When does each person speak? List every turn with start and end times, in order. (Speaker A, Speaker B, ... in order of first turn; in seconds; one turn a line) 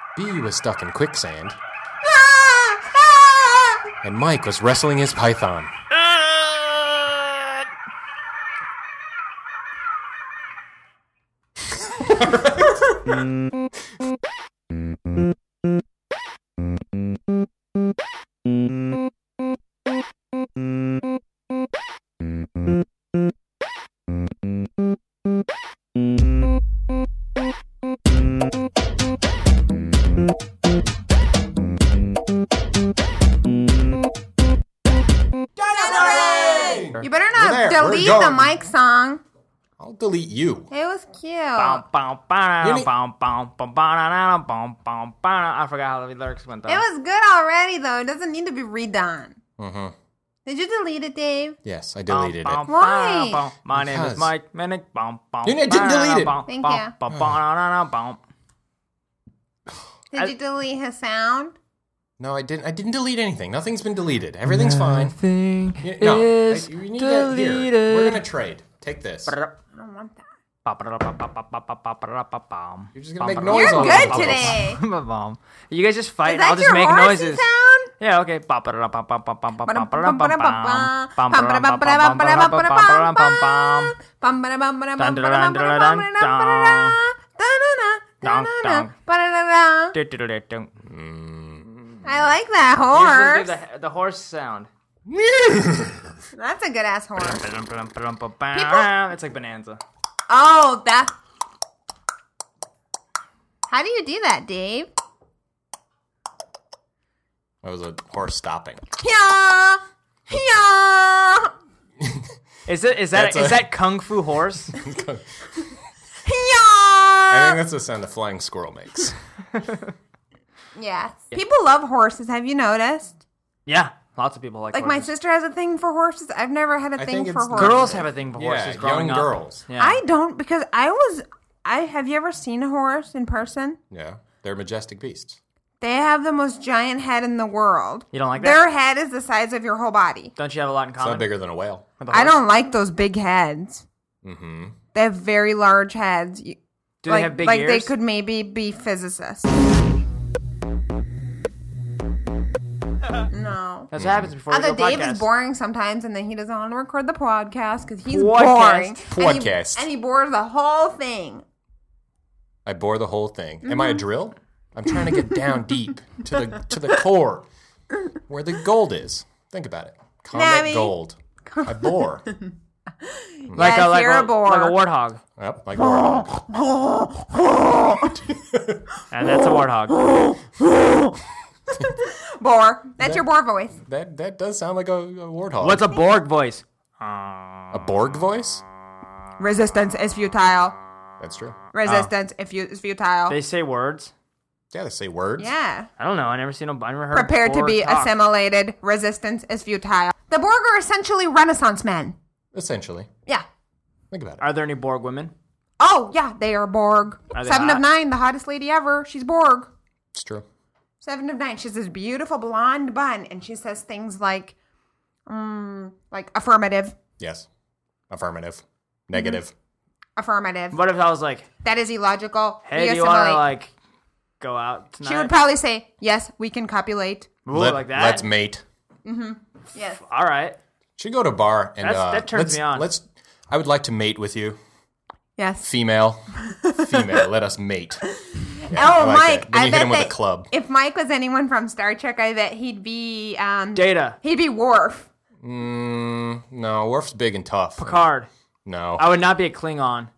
Speaker A: 0.1-1.6
Speaker B: 2.0-3.9
Speaker A: 4.0-5.7
Speaker A: 12.2-12.5
Speaker A: 35.6-38.5
Speaker B: 35.7-39.2
Speaker A: 39.8-40.7
Speaker B: 40.7-41.8
Speaker C: 41.6-46.8
Speaker A: 42.6-42.9
Speaker B: 46.7-49.4
Speaker A: 49.6-49.9
Speaker B: 50.5-51.6
Speaker A: 51.6-52.7
Speaker C: 52.1-58.2
Speaker B: 52.7-53.4
Speaker A: 53.8-54.3
Speaker A: 55.4-56.4
Speaker B: 56.5-56.9
Speaker B: 60.1-61.6
Speaker A: 62.2-65.2
Speaker C: 64.5-68.2
Speaker A: 65.8-69.3
Speaker C: 69.3-69.5
Speaker B: 69.7-70.3
Speaker C: 70.7-77.4
Speaker A: 73.0-74.6
Speaker B: 73.5-74.8
Speaker B: 76.2-77.9
Speaker C: 78.0-84.0
Speaker B: 79.7-90.0
Speaker C: 85.0-87.0
Speaker C: 88.2-88.9
Speaker C: 89.9-90.7
Speaker A: 90.8-91.8
Speaker B: 92.0-93.5
Speaker C: 92.9-94.7
Speaker A: 95.1-96.1
Speaker B: 96.3-97.5
Speaker C: 97.2-99.8
Speaker B: 98.5-98.9
Speaker B: 100.3-101.1
Speaker B: 103.7-104.9
Speaker A: 107.6-108.8
Speaker B: 109.0-111.5
Speaker A: 112.0-112.3
Speaker C: 112.7-114.7
Speaker A: 113.1-113.7
Speaker A: 114.7-115.3
Speaker B: 116.2-117.6
Speaker A: 117.3-119.2
Speaker B: 120.8-123.2
Speaker C: 123.7-125.1
Speaker B: 124.7-128.0
Speaker A: 127.0-129.6
Speaker C: 127.5-130.0
Speaker B: 129.8-133.8
Speaker A: 133.9-135.4
Speaker B: 135.8-140.3
Speaker C: 138.1-138.6
Speaker C: 140.4-141.3
Speaker A: 141.0-141.9
Speaker C: 142.0-142.4
Speaker B: 142.1-143.8
Speaker A: 144.2-144.8
Speaker B: 144.9-149.5
Speaker C: 147.0-147.9
Speaker B: 153.3-153.9
Speaker C: 153.9-155.3
Speaker A: 154.0-154.3
Speaker B: 154.5-161.4
Speaker C: 158.1-159.0
Speaker A: 159.1-159.9
Speaker A: 162.7-167.5
Speaker B: 163.6-164.0
Speaker A: 168.3-172.3
Speaker B: 170.3-174.8
Speaker C: 173.6-175.2
Speaker A: 175.4-176.5
Speaker B: 175.8-178.2
Speaker A: 178.1-178.8
Speaker C: 179.1-180.0
Speaker B: 179.9-181.2
Speaker B: 181.8-183.8
Speaker A: 183.8-185.8
Speaker C: 185.6-187.7
Speaker A: 187.7-188.6
Speaker B: 189.4-190.8
Speaker A: 191.2-191.6
Speaker B: 191.7-193.4
Speaker C: 191.9-192.1
Speaker C: 193.3-194.1
Speaker A: 194.7-195.5
Speaker B: 195.4-195.9
Speaker C: 196.0-198.1
Speaker B: 197.1-202.2
Speaker A: 202.5-203.1
Speaker A: 204.1-204.4
Speaker C: 204.4-205.3
Speaker B: 205.8-209.7
Speaker C: 207.3-207.8
Speaker A: 210.2-210.4
Speaker B: 211.0-214.6
Speaker B: 215.3-217.0
Speaker A: 217.2-217.5
Speaker A: 218.1-219.5
Speaker B: 219.1-219.4
Speaker B: 220.2-220.8
Speaker C: 220.7-221.5
Speaker B: 221.6-223.4
Speaker C: 222.7-223.7
Speaker C: 224.4-225.3
Speaker B: 225.0-227.3
Speaker C: 227.4-228.2
Speaker A: 227.5-228.6
Speaker B: 229.1-230.0
Speaker C: 230.0-230.6
Speaker A: 231.0-234.6
Speaker C: 231.8-232.9
Speaker B: 235.4-235.7
Speaker A: 235.6-238.0
Speaker B: 236.4-237.2
Speaker B: 238.2-245.1
Speaker A: 238.7-240.5
Speaker C: 243.7-244.2
Speaker A: 245.4-248.0
Speaker C: 247.8-248.3
Speaker A: 248.7-249.1
Speaker C: 249.0-250.1